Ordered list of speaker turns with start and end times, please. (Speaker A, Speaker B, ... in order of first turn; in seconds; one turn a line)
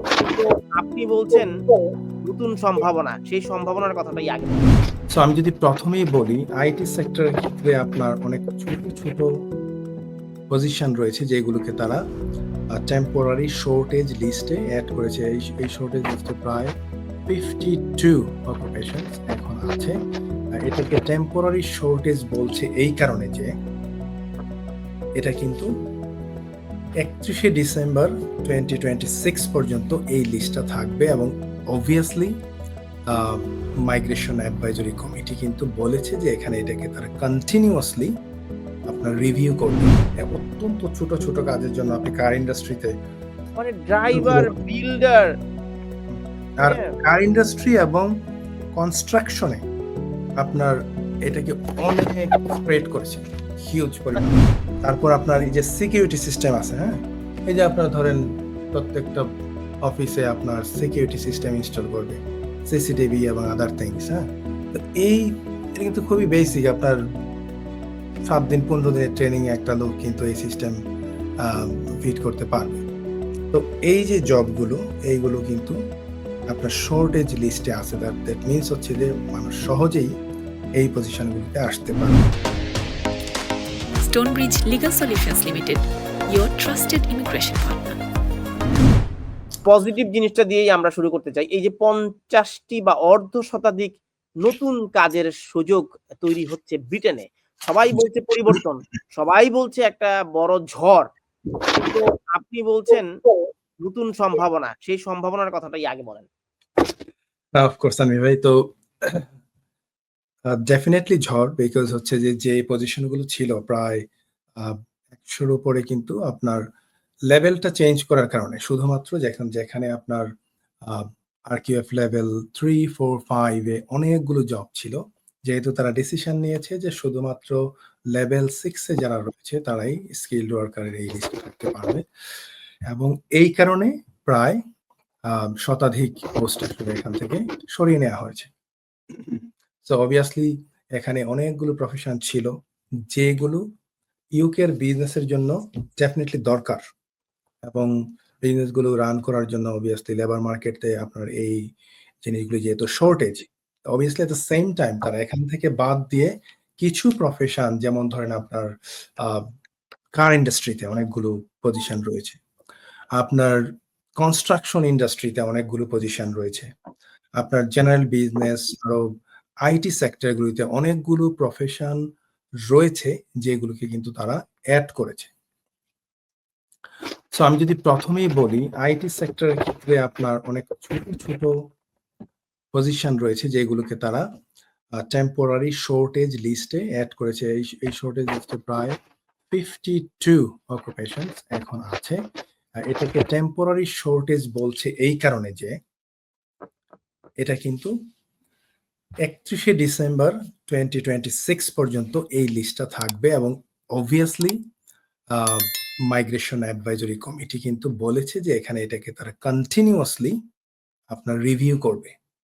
Speaker A: 0.2-1.5
Speaker A: 2.2-4.7
Speaker B: 5.1-9.3
Speaker B: 10.5-12.0
Speaker B: 12.7-16.7
Speaker B: 17.3-19.9
Speaker B: 20.6-23.5
Speaker B: 25.2-25.7
Speaker B: 27.0-32.3
Speaker B: 33.1-38.1
Speaker B: 38.9-42.9
Speaker A: 43.6-45.3
Speaker B: 44.1-44.5
Speaker B: 46.1-48.1
Speaker A: 46.6-46.9
Speaker B: 48.8-49.6
Speaker B: 50.4-59.3
Speaker B: 59.8-67.0
Speaker B: 68.2-70.8
Speaker B: 71.4-72.8
Speaker B: 73.5-75.8
Speaker B: 76.5-80.1
Speaker B: 80.8-82.3
Speaker C: 84.0-88.0
Speaker A: 89.6-101.1
Speaker A: 101.7-103.1
Speaker A: 103.8-106.3
Speaker B: 107.5-109.3
Speaker B: 110.5-114.0
Speaker B: 114.6-116.6
Speaker B: 117.3-120.2
Speaker B: 120.8-127.6
Speaker B: 128.1-132.0
Speaker B: 132.9-134.6
Speaker B: 135.3-138.5
Speaker B: 139.1-142.5
Speaker B: 143.1-143.6
Speaker B: 144.4-146.8
Speaker B: 147.7-151.6
Speaker B: 152.2-159.5
Speaker B: 160.2-162.4
Speaker B: 163.2-163.6
Speaker B: 164.2-166.7
Speaker B: 167.4-169.1
Speaker B: 169.6-172.0
Speaker B: 172.7-175.3
Speaker B: 177.3-181.6
Speaker B: 182.7-184.2
Speaker B: 185.0-189.0
Speaker B: 189.5-192.2
Speaker B: 192.8-195.8
Speaker B: 197.4-197.9
Speaker B: 199.2-204.6
Speaker B: 205.3-210.4
Speaker B: 211.1-212.2